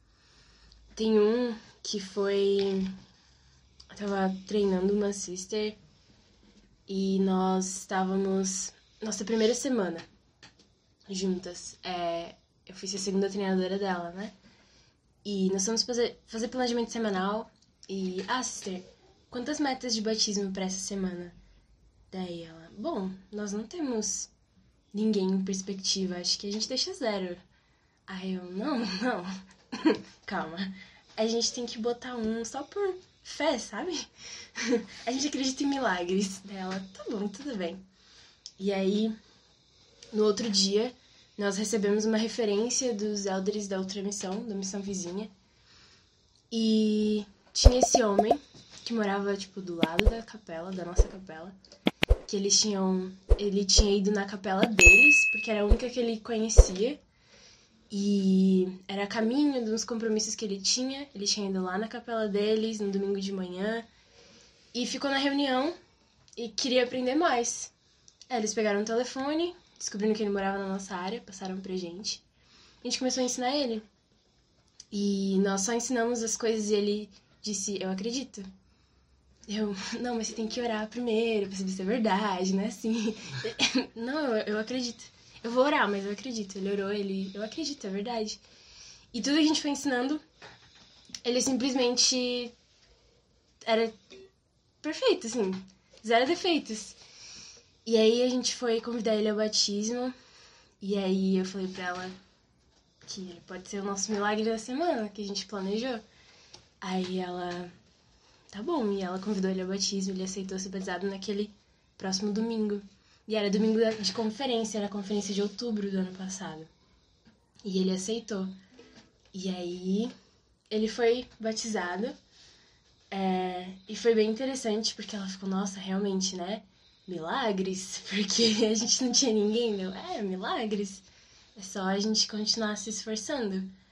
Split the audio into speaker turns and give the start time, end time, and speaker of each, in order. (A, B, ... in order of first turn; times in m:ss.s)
0:00.9-0:03.0 A
0:03.9-0:05.8 A
0:06.9-0:10.1 A
0:11.1-0:14.3 A
0:15.2-0:21.3 A
0:22.1-0:24.3 A
0:24.9-0:27.4 A
0:28.1-0:37.8 A
0:38.6-0:39.1 A
0:40.1-0:45.3 A
0:46.5-0:51.6 A
0:52.3-0:57.0 A
0:57.9-1:03.9 A
1:04.7-1:05.8 A
1:06.4-1:07.7 A
1:08.3-1:12.2 A
1:12.8-1:13.8 A
1:14.9-1:18.5 A
1:19.5-1:28.4 A
1:29.1-1:30.2 A
1:31.2-1:32.5 A
1:33.6-1:34.0 A
1:34.8-1:37.0 A
1:37.8-1:40.1 A
1:40.8-1:42.2 A
1:43.0-1:46.0 A
1:46.8-1:47.7 A
1:48.5-1:56.7 A
1:57.6-1:58.5 A
1:59.3-2:00.1 A
2:00.7-2:02.1 A
2:03.1-2:11.0 A
2:11.6-2:13.7 A